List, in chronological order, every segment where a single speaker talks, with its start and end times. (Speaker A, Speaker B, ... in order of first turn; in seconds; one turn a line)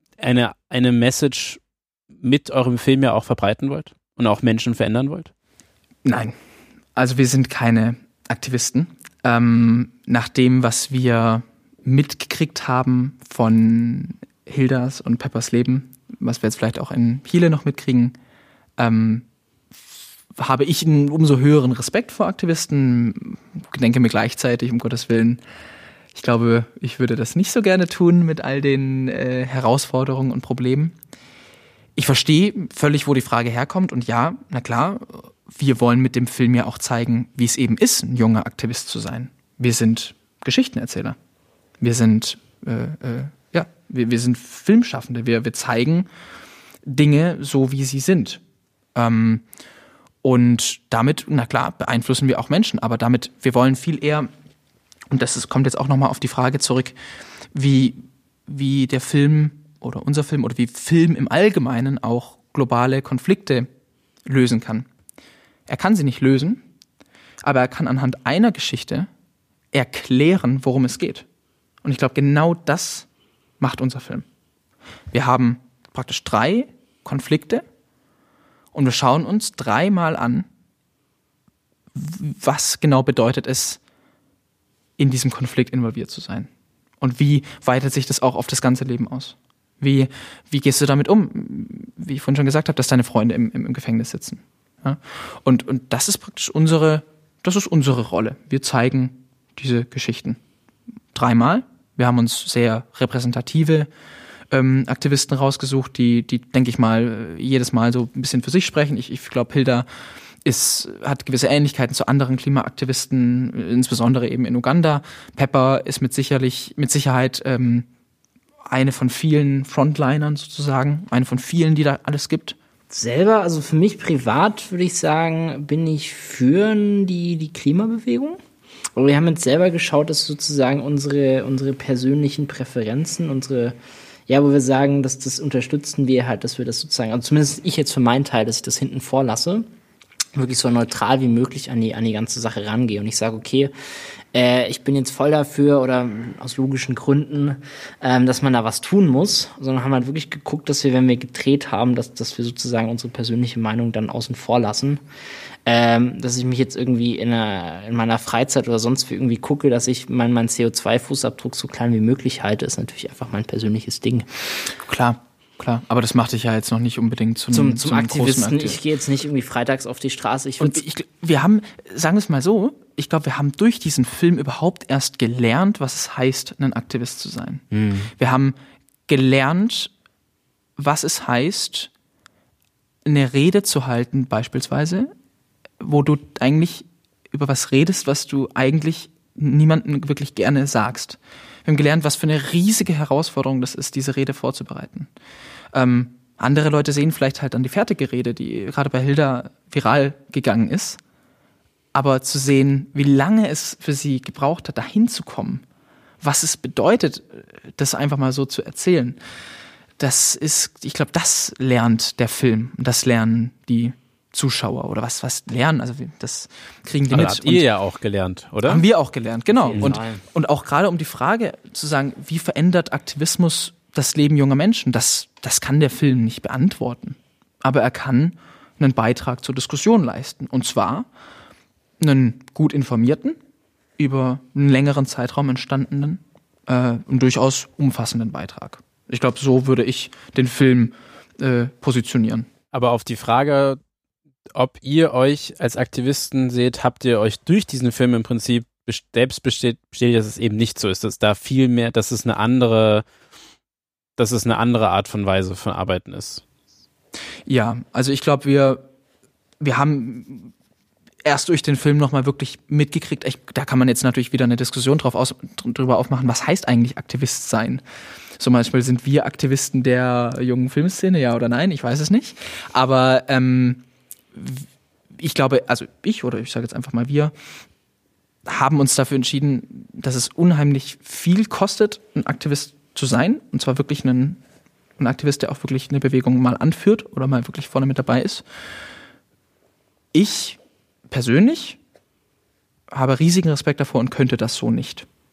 Speaker A: 0.2-1.6
Speaker A: 2.2-5.3
Speaker B: 6.0-6.3
Speaker B: 7.0-18.2
Speaker B: 18.8-19.3
Speaker B: 20.4-25.4
Speaker B: 26.1-30.9
Speaker B: 32.0-41.2
Speaker B: 41.8-46.1
Speaker B: 46.9-48.4
Speaker B: 49.0-49.5
Speaker B: 50.2-54.3
Speaker B: 55.1-57.0
Speaker B: 57.5-63.7
Speaker B: 64.3-64.9
Speaker B: 65.7-66.6
Speaker B: 67.4-69.1
Speaker B: 69.7-71.2
Speaker B: 71.8-73.1
Speaker B: 73.6-74.3
Speaker B: 75.1-77.7
Speaker B: 78.7-80.5
Speaker B: 81.9-83.8
Speaker B: 85.0-86.5
Speaker B: 87.0-100.4
Speaker B: 101.1-103.9
Speaker B: 104.5-109.9
Speaker B: 110.5-117.9
Speaker B: 118.7-122.6
Speaker C: 122.9-128.4
Speaker C: 128.9-133.8
Speaker C: 134.3-139.7
Speaker C: 140.4-143.7
Speaker C: 144.3-155.0
Speaker C: 155.7-164.3
Speaker B: 164.8-168.8
Speaker C: 167.5-170.8
Speaker B: 170.6-178.6
Speaker C: 177.7-178.1
Speaker B: 179.1-179.9
Speaker B: 180.8-181.9
Speaker B: 183.1-185.1
Speaker B: 185.8-195.1
Speaker B: 195.7-201.0
Speaker B: 201.9-205.6
Speaker B: 206.2-209.2
Speaker B: 210.0-217.7
Speaker A: 217.1-218.8
Speaker B: 218.7-231.1
Speaker C: 219.5-220.2
Speaker B: 232.0-233.4
Speaker B: 234.0-242.5
Speaker A: 242.7-243.8
Speaker A: 244.5-253.1
Speaker A: 254.2-256.4
Speaker B: 257.5-258.8
Speaker B: 259.6-260.5
Speaker B: 261.2-267.8
Speaker B: 268.4-273.8
Speaker B: 274.3-277.3
Speaker B: 278.5-284.4
Speaker B: 285.0-288.4
Speaker B: 290.1-290.6
Speaker B: 291.1-291.8
Speaker B: 292.9-295.1